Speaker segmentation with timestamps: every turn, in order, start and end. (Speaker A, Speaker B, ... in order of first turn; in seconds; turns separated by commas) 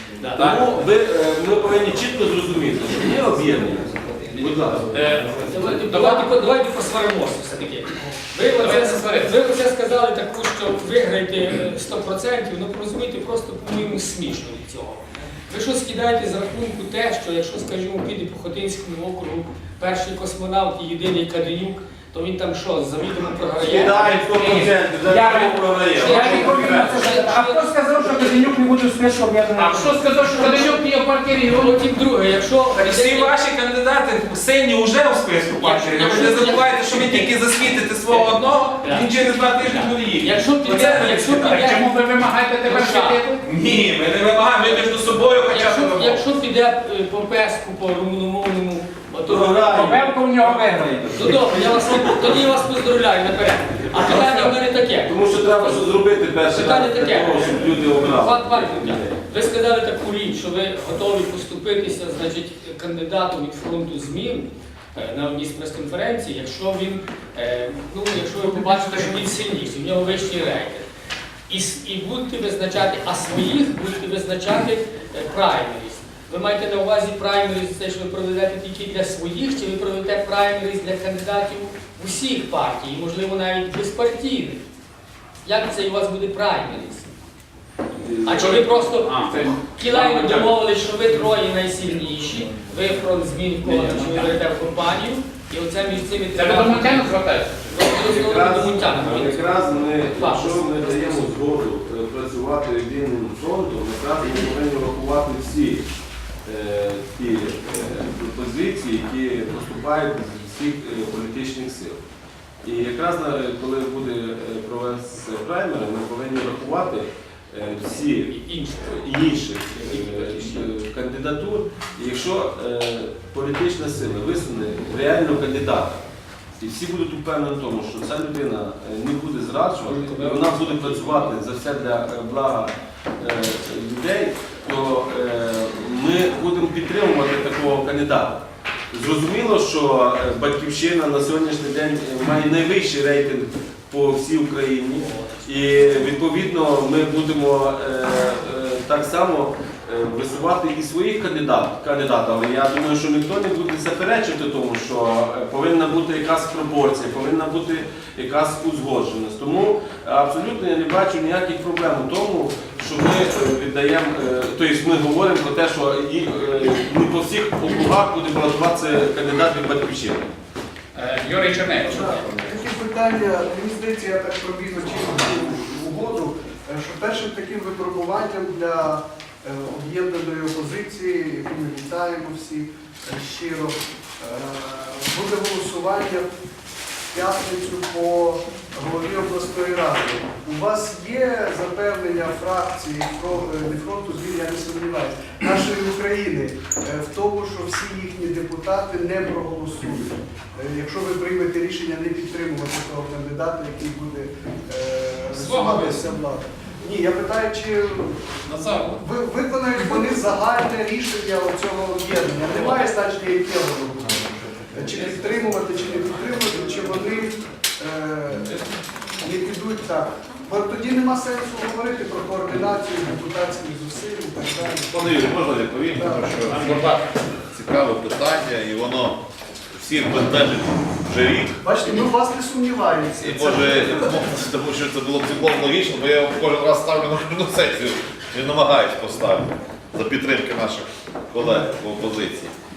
Speaker A: 0.3-0.6, Speaker B: 0.3-4.9, Speaker A: 4.3-6.3, Speaker C: 5.5-24.2, Speaker A: 8.5-9.3, Speaker B: 23.6-27.1, Speaker D: 24.2-30.4, Speaker C: 25.9-28.3, Speaker A: 29.6-31.8, Speaker C: 30.4-30.8, Speaker C: 31.5-33.4, Speaker E: 32.7-41.5, Speaker C: 35.6-37.4, Speaker C: 38.1-39.1, Speaker C: 40.2-43.4, Speaker A: 40.6-43.4, Speaker E: 42.8-46.3, Speaker C: 45.4-55.9, Speaker B: 49.2-49.9, Speaker D: 49.7-51.4, Speaker B: 51.1-52.4, Speaker B: 53.8-59.2, Speaker C: 56.4-70.9, Speaker C: 71.5-84.6, Speaker C: 85.4-87.1, Speaker B: 88.0-88.5, Speaker C: 88.2-97.2, Speaker A: 88.4-90.6, Speaker A: 93.6-94.4, Speaker A: 96.3-98.0, Speaker C: 97.7-101.3, Speaker B: 98.0-105.9, Speaker B: 106.5-112.0, Speaker B: 112.6-126.0, Speaker C: 117.8-120.7, Speaker B: 126.6-170.3, Speaker C: 129.8-131.4, Speaker C: 144.9-146.2, Speaker A: 170.9-172.3, Speaker F: 171.8-186.3, Speaker F: 187.1-208.3, Speaker E: 205.3-206.1, Speaker E: 208.5-209.0, Speaker F: 209.0-218.6, Speaker F: 219.2-225.0, Speaker G: 224.9-226.9, Speaker F: 225.9-226.3, Speaker A: 226.5-227.1, Speaker G: 227.5-229.2, Speaker G: 229.7-231.6, Speaker F: 231.6-234.3, Speaker G: 233.2-242.5